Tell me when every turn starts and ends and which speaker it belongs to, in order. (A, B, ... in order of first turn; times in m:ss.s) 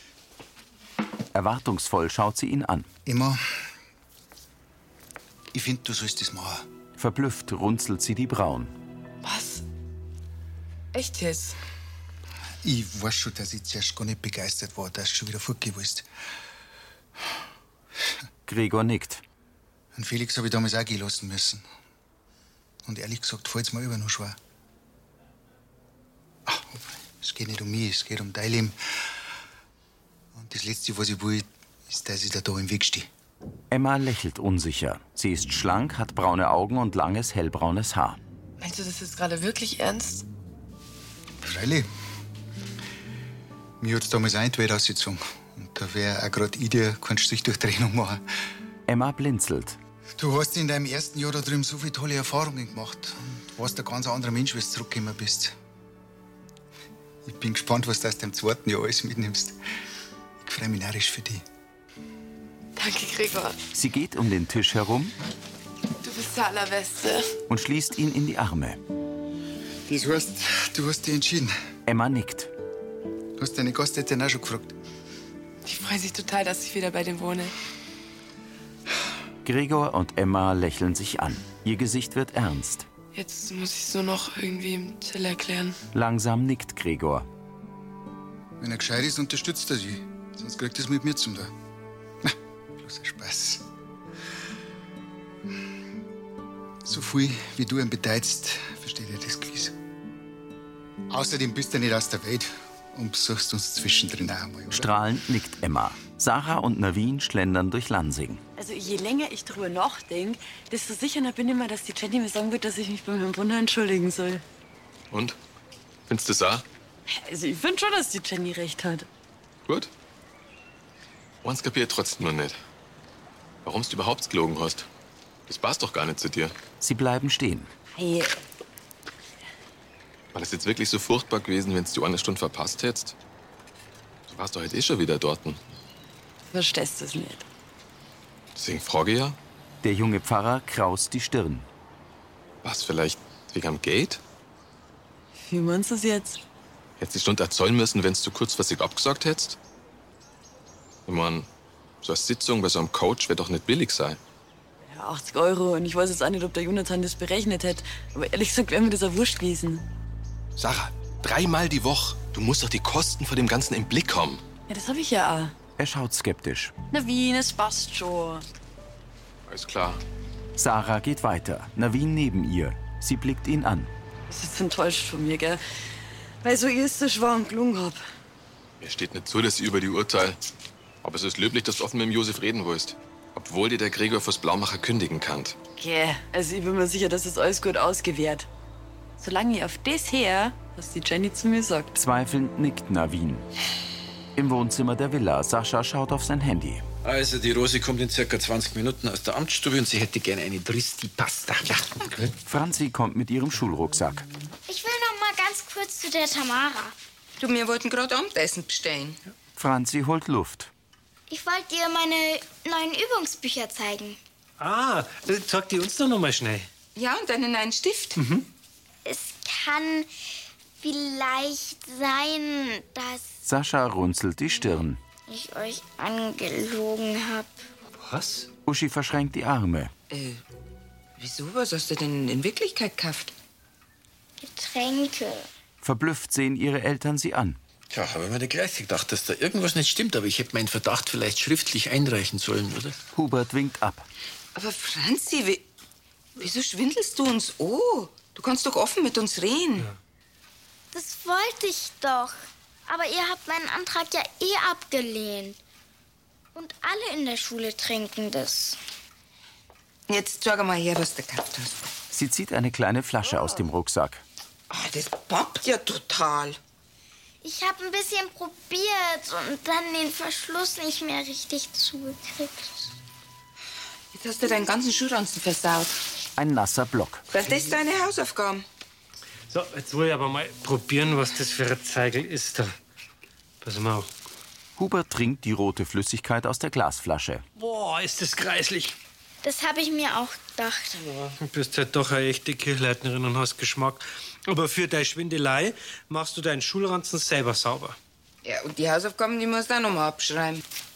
0:01.3-0:02.9 A
0:03.0-0:03.4 B
0:05.5-0:06.6 B
0:07.0-0:08.7 A
0:09.2-0:09.6 C
0:10.9-0:11.6 C
0:12.6-0:16.1 B
0:18.5-0:19.2 A
0:19.9-0:21.7 B
0:22.8-0:24.4 B
0:26.4-0:29.1 B
0:30.3-0:33.1 B
0:33.7-0:38.2 A
0:38.6-0:40.2 D
0:39.3-0:39.8 C
0:41.4-0:41.9 B
0:43.8-0:48.2 B
0:48.9-0:49.8 A
0:50.2-0:55.5 B
0:57.2-0:59.6 B
1:00.4-1:01.4 B
1:02.8-1:03.6 C
1:03.7-1:05.1 A
1:06.0-1:07.3 C
1:07.5-1:08.8 A
1:09.9-1:11.6 B
1:11.8-1:12.5 A
1:13.4-1:14.7 B
1:15.6-1:17.5 C
1:19.4-1:22.8 A
1:23.1-1:25.8 C
1:25.9-1:27.3 A
1:28.6-1:31.5 B
1:32.2-1:33.6 B
1:36.8-1:39.7 B
1:41.1-1:44.9 B
1:44.7-1:48.4 A
1:48.6-1:54.4 D
1:55.1-1:55.4 E
1:56.1-1:56.6 E
1:57.1-1:59.1 D
2:01.4-2:02.6 E
2:03.6-2:04.9 E
2:05.5-2:06.5 E
2:06.8-2:07.7 A
2:07.9-2:08.4 D
2:10.3-2:13.1 E
2:14.3-2:15.6 E
2:16.5-2:17.4 D
2:18.6-2:19.4 E
2:19.8-2:21.7 A
2:22.6-2:24.2 E
2:25.4-2:26.4 D
2:27.0-2:29.6 E
2:31.1-2:31.5 E
2:32.0-2:34.2 E
2:34.8-2:39.8 D
2:40.6-2:44.4 E
2:44.7-2:45.5 D
2:45.8-2:46.7 A
2:46.9-2:48.4 D
2:49.5-2:50.0 E
2:50.6-2:53.9 A
2:54.3-2:55.6 D
2:56.4-2:58.0 D
2:58.8-3:00.4 E
3:01.0-3:05.6 E
3:05.8-3:08.5 D
3:09.2-3:11.9 D
3:11.9-3:13.5 A
3:14.4-3:16.8 A
3:17.0-3:22.3 F
3:22.4-3:24.2 A
3:24.7-3:26.9 G
3:27.4-3:29.2 H
3:29.6-3:30.7 A
3:31.3-3:34.2 G
3:34.6-3:36.7 I
3:36.9-3:38.2 H
3:38.2-3:38.4 I
3:39.0-3:40.1 G
3:40.8-3:43.4 G
3:43.4-3:45.0 A
3:45.3-3:47.6 G
3:48.0-3:48.5 I
3:48.6-3:49.9 A
3:50.1-3:50.4 H
3:51.2-3:53.3 H
3:54.4-3:55.5 G
3:55.8-3:57.6 A
3:57.9-4:03.0 F
4:03.1-4:04.0 A
4:04.5-4:05.6 H
4:06.4-4:09.9 H
4:10.9-4:15.6 G
4:16.5-4:18.8 G
4:20.1-4:21.9 H
4:22.1-4:24.2 A
4:24.7-4:26.6 H
4:27.4-4:32.9 G
4:34.1-4:36.0 H
4:36.4-4:37.2 A
4:37.3-4:38.6 H
4:39.5-4:42.7 I
4:43.6-4:44.1 I
4:44.8-4:47.4 A
4:47.6-4:48.9 I
4:49.4-4:51.1 G
4:51.1-4:58.0 I
4:58.4-5:00.6 H